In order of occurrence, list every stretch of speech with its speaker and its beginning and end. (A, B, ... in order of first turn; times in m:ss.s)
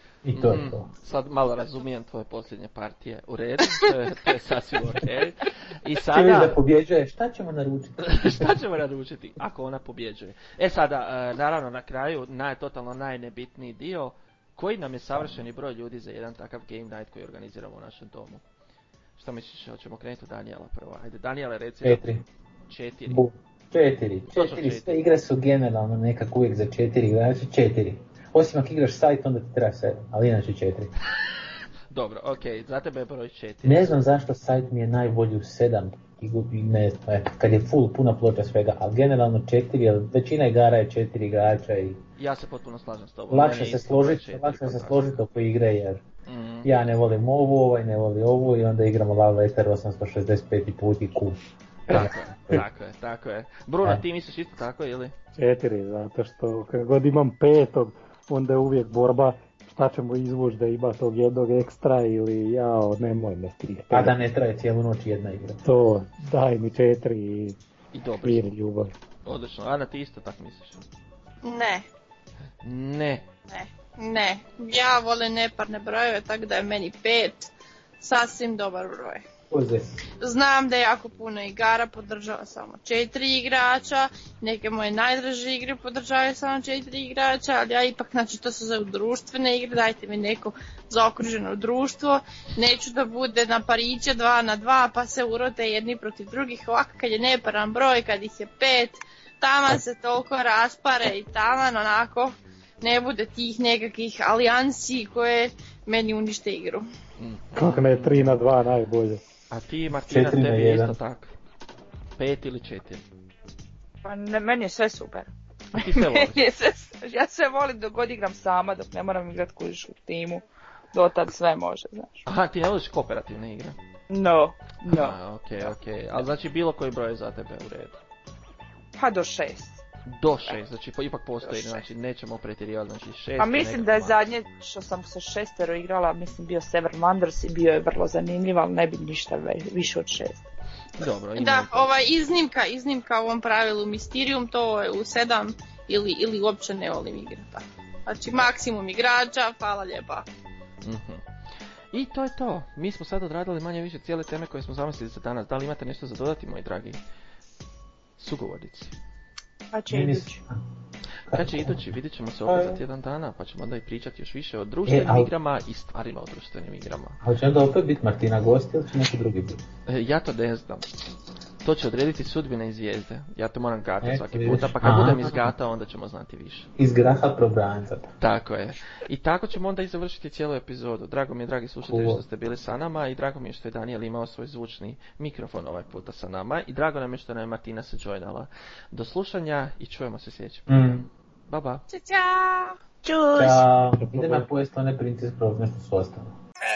0:00.2-0:00.9 A
0:00.3-0:06.6 B
0:06.1-0:08.6 A
0:08.0-0:18.4 B
0:19.2-0:22.0 B
0:21.8-0:22.2 A
0:22.7-0:23.2 B
0:23.1-0:30.9 A
0:24.3-0:25.0 B
0:31.9-0:34.0 B
0:33.6-0:42.0 A
0:42.2-0:45.2 B
0:43.3-0:46.0 A
0:46.2-0:46.7 B
0:46.6-0:51.4 A
0:51.9-0:55.1 B
0:51.9-0:52.6 A
0:55.4-1:04.2 C
1:03.9-1:05.6 A
1:05.6-1:07.6 C
1:07.9-1:08.4 B
1:08.2-1:08.9 C
1:09.2-1:10.8 B
1:11.4-1:11.8 D
1:12.6-1:13.3 B
1:13.5-1:19.2 D
1:19.5-1:20.0 A
1:20.2-1:46.8 D
1:47.2-1:48.4 B
1:47.5-1:49.2 C
1:49.5-1:51.3 B
1:50.0-1:51.0 A
1:52.2-1:53.0 B
1:54.0-2:02.2 E
1:55.7-1:56.4 B
2:02.2-2:03.8 B
2:04.1-2:05.2 E
2:04.9-2:08.0 B
2:09.0-2:09.8 E
2:10.1-2:14.2 B
2:11.4-2:11.8 E
2:13.4-2:20.4 E
2:21.0-2:21.9 B
2:21.4-2:30.2 D
2:30.8-2:31.2 B
2:31.9-2:37.0 B
2:38.2-2:38.9 B
2:39.7-2:40.4 E
2:39.9-2:40.6 A
2:41.3-2:41.9 A
2:41.3-2:47.2 B
2:42.4-2:42.8 A
2:44.8-2:45.3 A
2:47.2-2:49.6 A
2:49.9-2:50.8 B
2:51.6-2:56.7 B
2:54.0-2:55.5 A
2:56.8-2:58.1 A
2:58.2-3:11.8 B
3:01.9-3:02.2 A
3:10.7-3:11.1 A
3:11.9-3:12.8 D
3:13.0-3:13.6 E
3:13.3-3:16.3 A
3:14.0-3:14.4 C